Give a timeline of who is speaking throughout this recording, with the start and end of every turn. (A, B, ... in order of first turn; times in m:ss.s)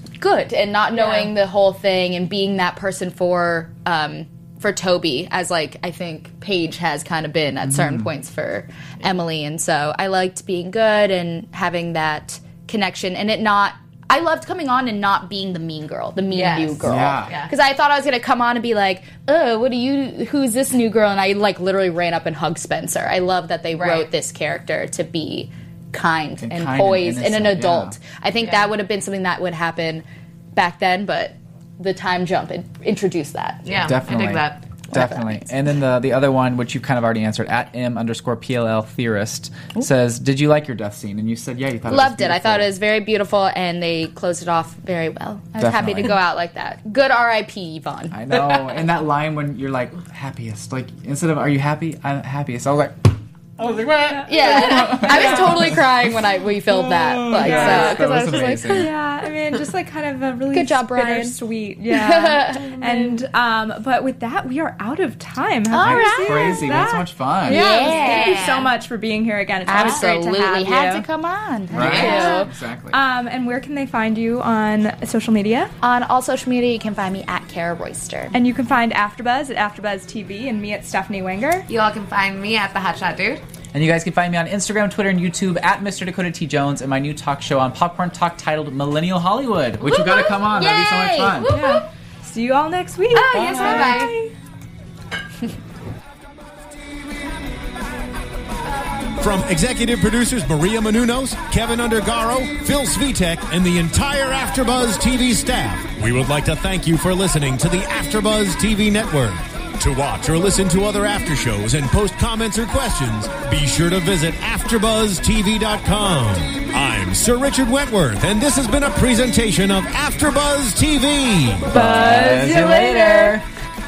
0:00.2-0:33.8 A
0:00.9-0:01.3 B
0:07.6-0:08.1 C
0:16.3-0:17.5 B
0:16.8-0:17.3 C
0:23.8-0:24.1 B
0:26.4-0:28.0 C
0:28.4-0:28.7 B
0:33.7-0:34.6 B
0:33.8-0:42.8 C
0:34.9-0:35.3 A
0:41.9-0:48.2 A
0:45.6-0:46.2 C
0:48.1-0:58.9 C
0:54.1-0:55.4 D
0:54.3-0:58.9 A
0:57.4-0:58.0 D
0:58.7-1:11.0 D
1:00.5-1:02.8 A
1:05.7-1:06.6 A
1:05.8-1:07.8 C
1:07.5-1:08.6 A
1:07.6-1:08.7 B
1:09.7-1:12.5 A
1:09.7-1:10.1 B
1:11.7-1:13.0 C
1:11.7-1:12.3 B
1:11.9-1:15.7 D
1:15.8-1:18.3 A
1:18.3-1:21.7 D
1:21.7-1:23.4 B
1:23.7-1:31.5 C
1:29.8-1:31.9 A
1:31.4-1:34.3 D
1:33.1-1:34.1 A
1:33.3-1:34.1 B
1:33.3-1:34.0 C
1:39.2-2:01.7 E
2:01.6-2:03.5 C
2:01.7-2:03.4 D